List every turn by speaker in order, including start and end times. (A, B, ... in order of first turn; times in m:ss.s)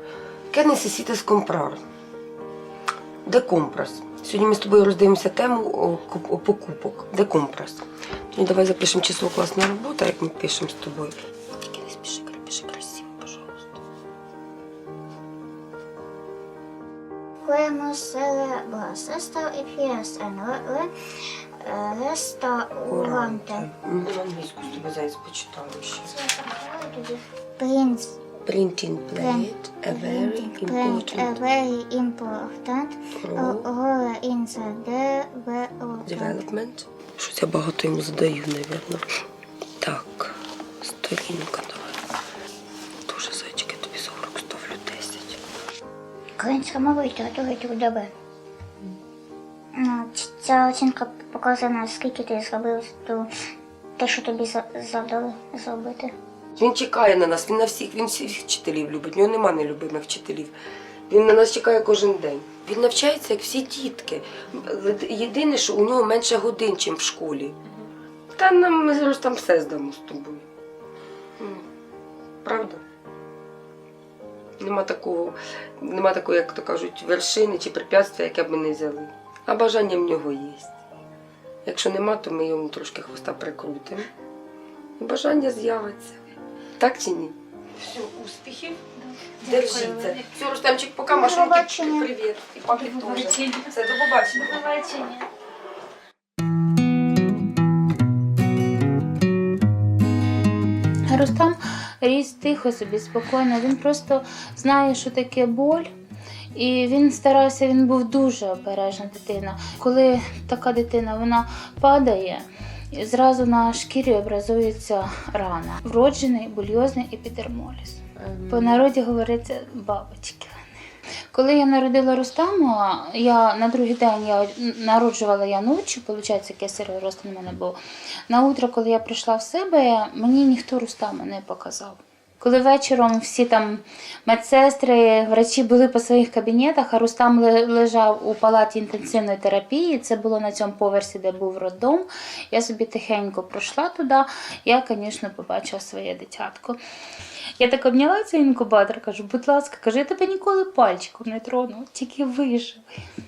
0:00.5-0:01.8 A
0:03.2-0:11.1 A
0:11.6-0:13.8 A
0:17.4-0:20.9 B
0:21.6-0:23.7 B
0:22.9-0:26.1 A
0:26.0-0:28.2 B
0:28.4-0:31.4 A
0:29.2-0:36.4 B
0:33.2-0:33.7 A
0:36.0-0:39.2 A
0:39.8-0:42.0 A
0:43.1-0:45.4 A
0:46.4-0:48.1 B
0:49.7-0:53.3 B
0:54.0-0:56.1 B
0:56.6-1:00.5 A
1:01.1-1:07.6 A
1:08.4-1:10.4 A
1:11.4-1:11.6 A
1:12.4-1:12.8 A
1:14.6-1:20.7 A
1:21.6-1:24.1 A
1:25.0-1:26.2 A
1:26.8-1:28.8 A
1:29.0-1:30.4 C
1:29.4-1:34.6 A
1:31.1-1:32.1 B
1:32.7-1:33.7 C
1:34.3-1:35.3 C
1:41.1-1:45.9 C
1:46.5-2:00.6 C
1:58.2-1:58.8 A
2:01.3-2:07.8 C
2:08.3-2:26.8 C
2:27.6-2:32.9 C